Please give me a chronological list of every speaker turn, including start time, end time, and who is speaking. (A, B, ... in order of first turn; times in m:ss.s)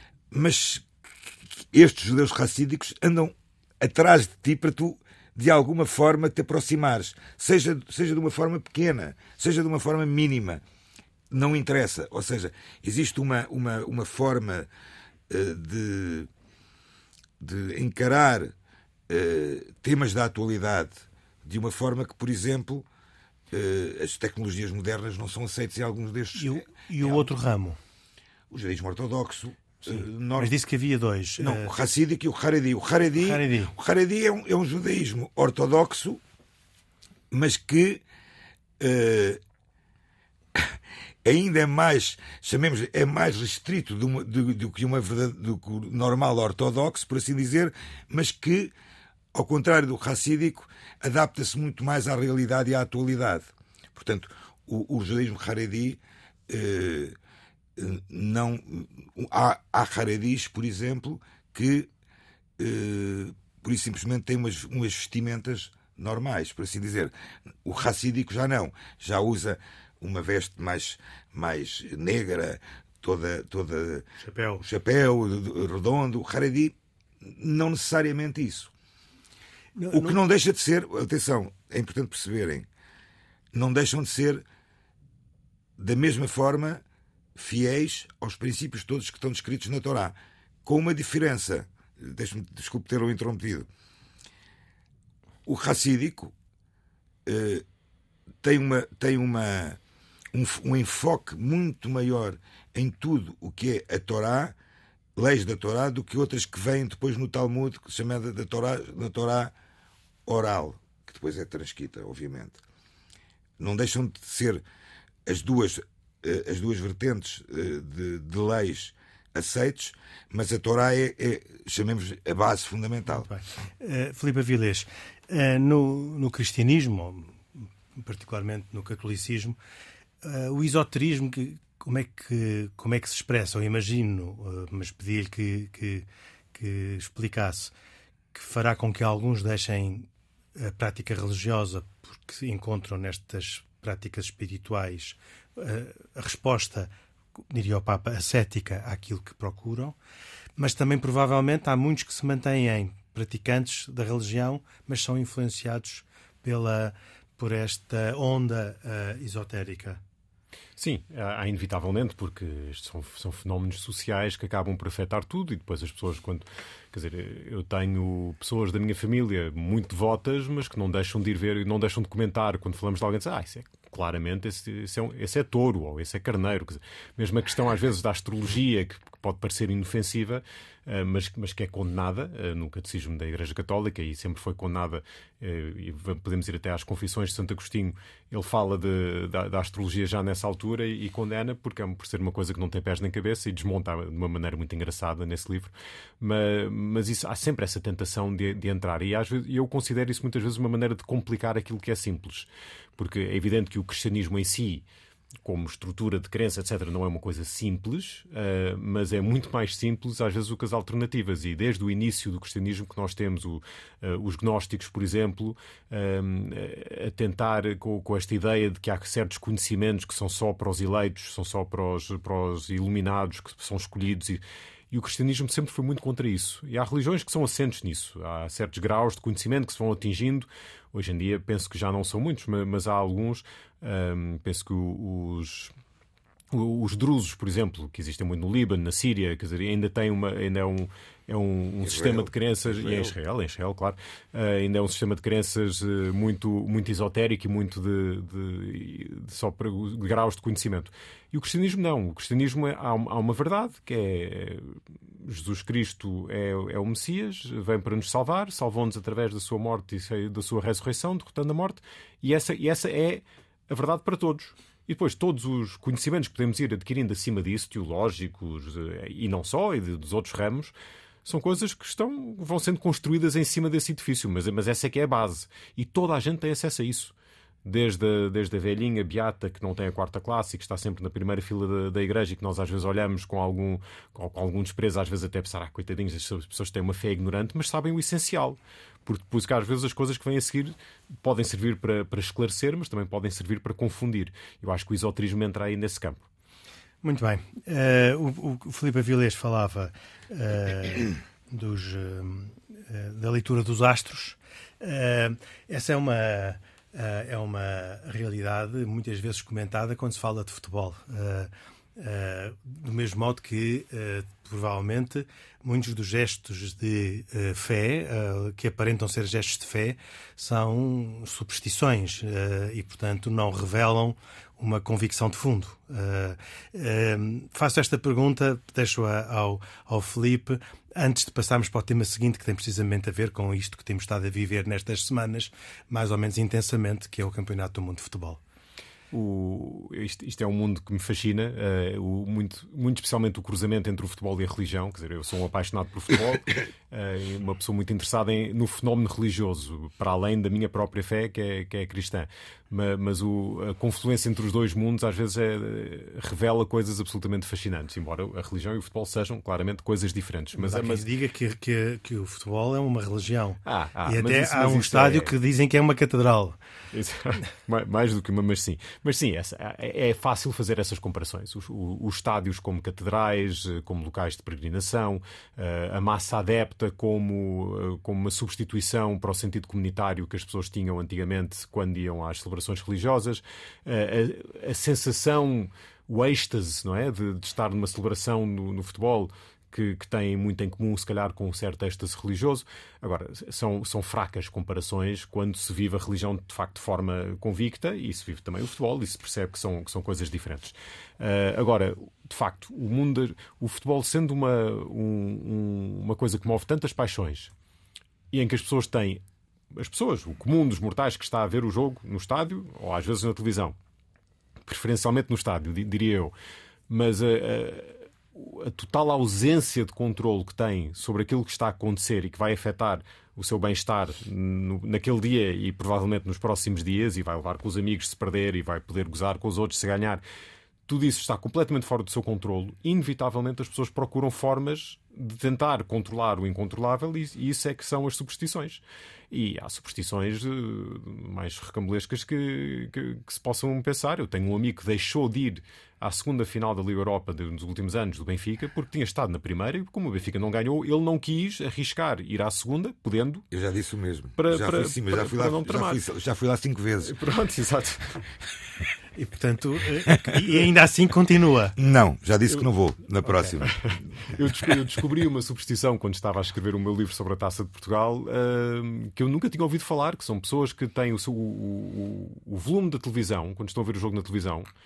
0:00.3-0:10.6 A
0:11.3-0:14.7 A
0:15.3-0:16.3 A
0:17.4-0:18.6 A
0:19.1-0:22.9 A
0:23.5-0:27.3 A
0:26.4-0:27.8 B
0:28.5-0:30.5 A
0:29.9-0:31.7 B
0:31.4-0:36.2 A
0:33.2-0:33.7 B
0:37.3-0:38.0 A
0:38.8-0:39.4 A
0:40.6-0:48.7 A
0:49.3-0:57.2 A
0:57.8-1:01.9 A
1:02.6-1:07.1 A
1:07.6-1:14.1 A
1:14.2-1:14.6 B
1:14.6-1:18.7 A
1:19.8-1:20.2 B
1:19.9-1:22.7 A
1:23.5-1:24.4 A
1:25.8-1:26.8 A
1:27.4-1:33.7 A
1:35.5-1:36.3 A
1:37.3-1:37.6 A
1:38.4-1:39.8 A
1:40.3-1:44.6 A
1:45.2-1:49.5 A
1:50.3-1:52.6 A
1:53.6-1:54.6 A
1:55.3-2:03.3 A
2:03.1-2:09.6 B
2:10.2-2:17.7 B
2:18.3-2:26.9 B
2:27.5-2:30.0 B
2:30.6-2:40.0 B
2:40.8-3:24.8 C
3:25.4-3:55.7 C
3:56.5-4:30.7 C
4:01.8-4:03.2 A
4:31.2-4:37.1 C
4:37.6-4:56.2 C
4:57.0-5:38.4 B
5:39.1-6:01.1 C
6:00.6-6:06.6 B
6:03.6-6:05.3 C
6:06.9-6:47.5 C
6:48.3-6:49.2 C
6:49.7-6:53.8 C
6:54.6-6:56.3 C
6:56.9-7:10.2 C
7:10.9-7:33.4 C
7:33.5-7:37.2 A
7:34.4-7:36.0 C
7:37.0-7:38.3 C
7:39.2-7:41.8 B
7:41.8-7:43.8 A
7:43.3-7:43.5 B
7:43.6-7:54.7 C